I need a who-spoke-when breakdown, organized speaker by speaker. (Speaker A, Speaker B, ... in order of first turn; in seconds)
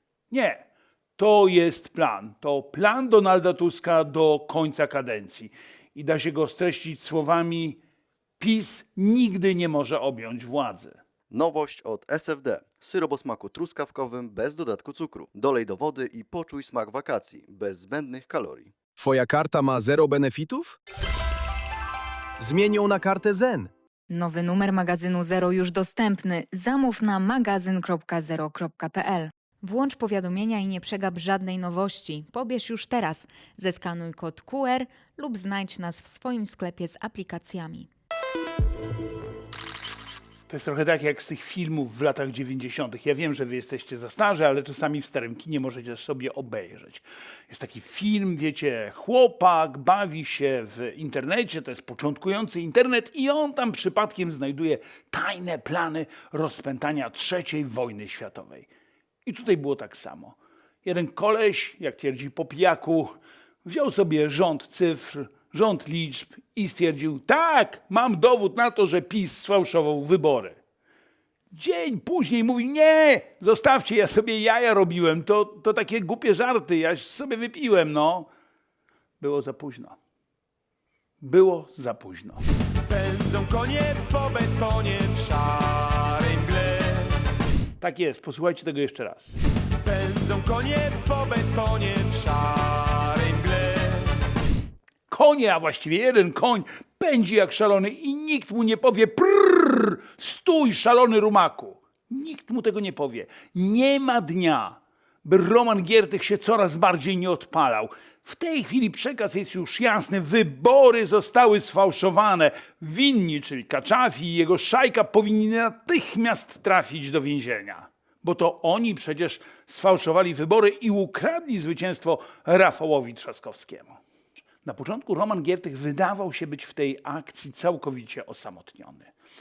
Speaker A: 0.3-0.6, 1.2-7.8, 8.4-11.0, 40.5-58.7, 59.2-70.6, 71.5-78.3, 79.2-80.0, 81.2-82.4, 87.8-89.3, 95.1-124.0, 124.6-129.1
Speaker B: 11.3-18.7
Speaker C: 19.0-20.8, 22.4-23.7
Speaker D: 24.1-37.9
Speaker E: 82.9-87.0, 89.8-93.8